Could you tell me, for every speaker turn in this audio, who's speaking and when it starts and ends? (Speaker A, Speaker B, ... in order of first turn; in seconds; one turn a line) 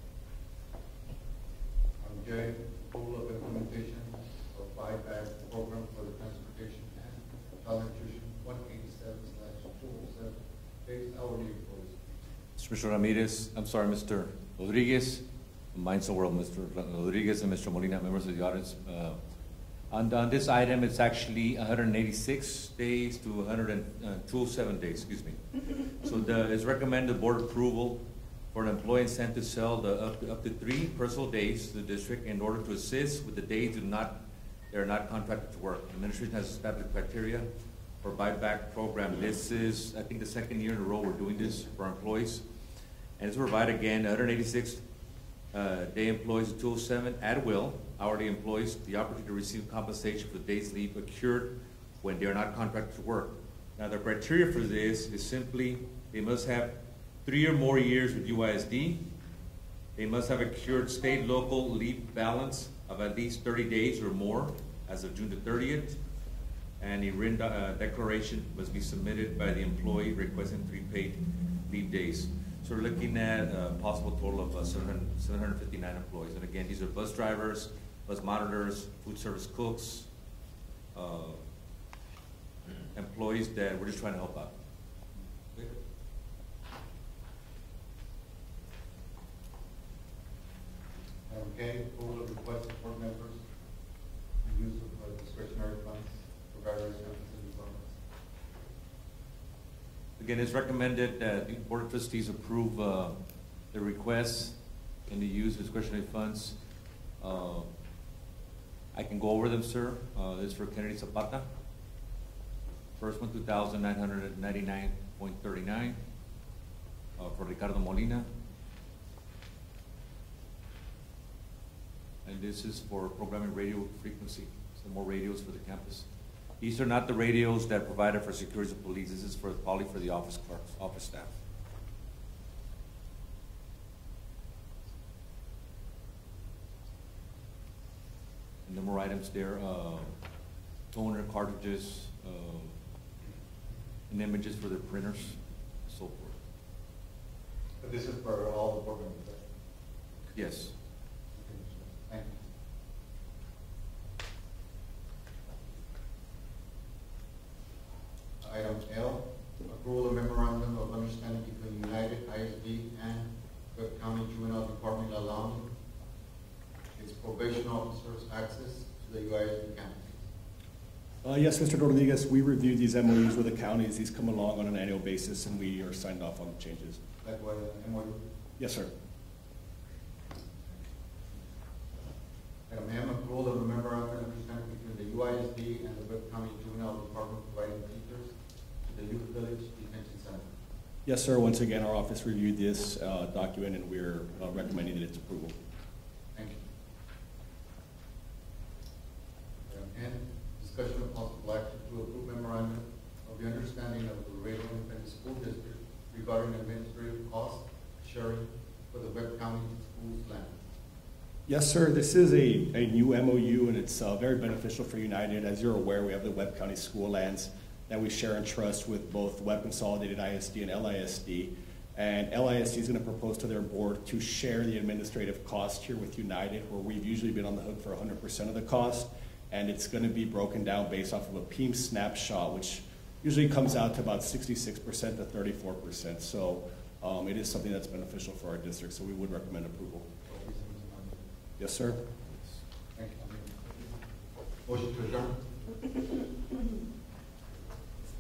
Speaker A: 2.0-12.2
Speaker B: 12.6-15.2
Speaker B: 15.7-19.2
Speaker B: 19.9-25.4
Speaker B: 26.0-28.0
Speaker B: 28.5-34.1
Speaker B: 34.7-37.5
Speaker B: 38.0-42.4
Speaker B: 43.2-44.8
Speaker B: 45.5-56.7
Speaker B: 57.2-59.0
Speaker B: 60.0-66.0
Speaker B: 66.8-80.1
Speaker B: 80.9-81.4
Speaker B: 82.9-84.5
Speaker A: 91.3-93.4
Speaker A: 94.4-98.0
Speaker B: 100.2-103.2
Speaker B: 103.7-104.5
Speaker B: 105.1-106.5
Speaker B: 107.2-107.7
Speaker B: 108.9-111.4
Speaker B: 113.0-116.0
Speaker B: 117.2-118.3
Speaker B: 122.2-126.0
Speaker B: 126.6-131.3
Speaker B: 138.7-140.1
Speaker B: 140.9-142.8
Speaker B: 144.1-146.4
Speaker A: 147.8-149.5
Speaker B: 150.3-150.7
Speaker A: 151.4-152.4
Speaker A: 158.4-165.7
Speaker A: 167.0-170.3
Speaker C: 171.2-177.0
Speaker A: 177.2-178.3
Speaker C: 178.6-178.9
Speaker A: 182.7-188.3
Speaker A: 188.8-190.5
Speaker C: 191.1-195.6
Speaker A: 196.3-196.6
Speaker A: 199.7-210.6
Speaker C: 211.5-240.1
Speaker A: 240.2-241.2
Speaker C: 241.6-242.0
Speaker A: 242.9-243.8
Speaker A: 244.6-245.4